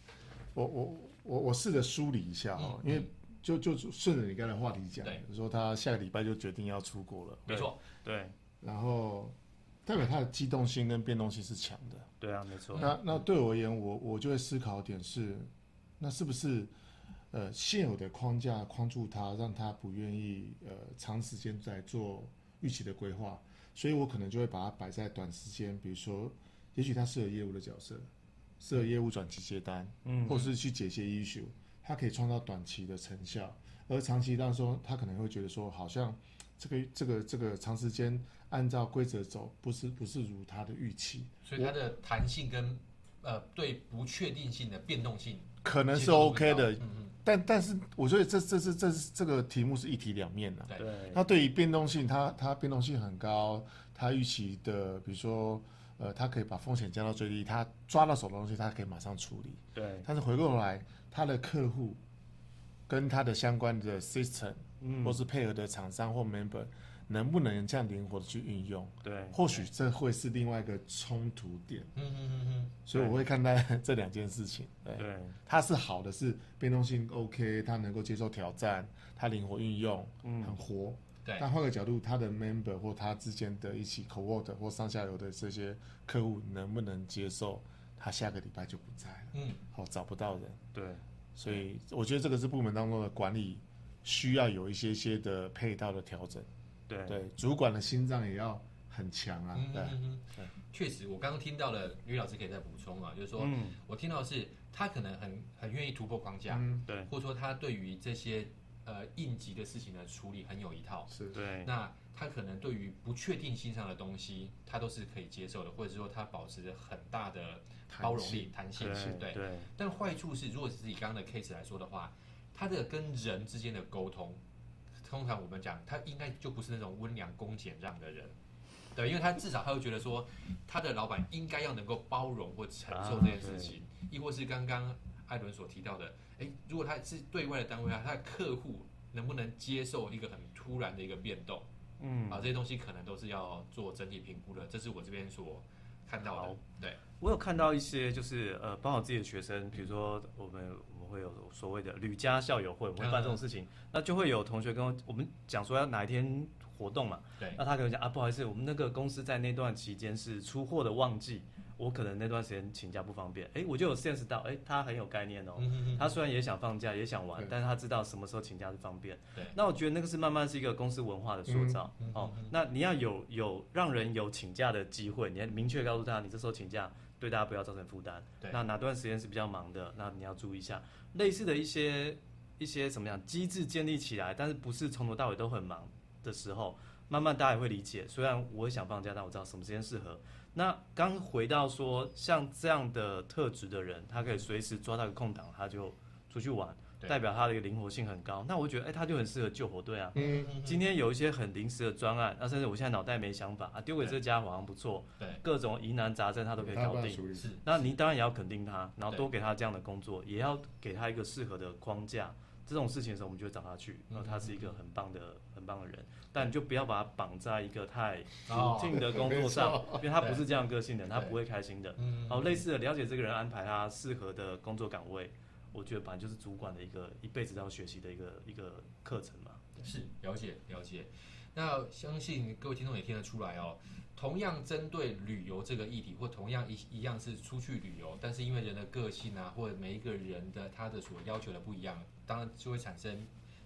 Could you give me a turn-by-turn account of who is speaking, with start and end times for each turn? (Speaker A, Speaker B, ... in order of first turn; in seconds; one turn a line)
Speaker A: 0.5-7.7
Speaker B: 2.5-3.1
Speaker B: 7.5-7.8
Speaker C: 7.5-8.3
Speaker A: 8.6-12.1
Speaker C: 12.2-12.9
Speaker B: 12.7-13.2
Speaker A: 12.7-16.7
Speaker A: 17.3-28.1
Speaker A: 28.6-41.7
Speaker C: 30.0-30.5
Speaker B: 41.4-47.1
Speaker A: 45.6-62.0
Speaker C: 50.8-51.2
Speaker C: 59.7-60.1
Speaker A: 62.9-71.9
Speaker C: 64.8-65.2
Speaker C: 69.0-69.4
Speaker B: 72.0-72.8
Speaker A: 72.8-90.6
Speaker C: 72.9-73.2
Speaker C: 75.0-75.4
Speaker C: 80.2-80.6
Speaker B: 89.3-89.6
Speaker C: 90.7-91.0
Speaker A: 91.3-96.5
Speaker C: 96.9-97.2
Speaker A: 97.1-100.5
Speaker B: 99.5-111.1
Speaker C: 103.3-103.8
Speaker A: 106.5-106.8
Speaker A: 111.1-111.4
Speaker C: 111.3-111.7
Speaker B: 111.6-124.4
Speaker A: 117.9-119.1
Speaker C: 118.7-119.7
Speaker B: 125.0-128.3
Speaker B: 128.9-141.7
Speaker C: 132.9-133.8
Speaker C: 142.0-142.6
Speaker B: 142.3-147.0
Speaker C: 146.2-146.6
Speaker C: 147.2-229.6
Speaker B: 153.0-153.4
Speaker B: 165.6-166.2
Speaker A: 171.4-171.8
Speaker B: 172.0-172.5
Speaker A: 200.1-200.6
Speaker B: 200.1-200.9
Speaker A: 206.6-207.5
Speaker B: 207.3-207.7
Speaker B: 214.1-214.7
Speaker B: 218.5-219.1
Speaker A: 218.9-220.1
Speaker B: 220.0-220.5
Speaker B: 221.1-221.3
Speaker B: 222.0-222.7
Speaker B: 229.8-243.3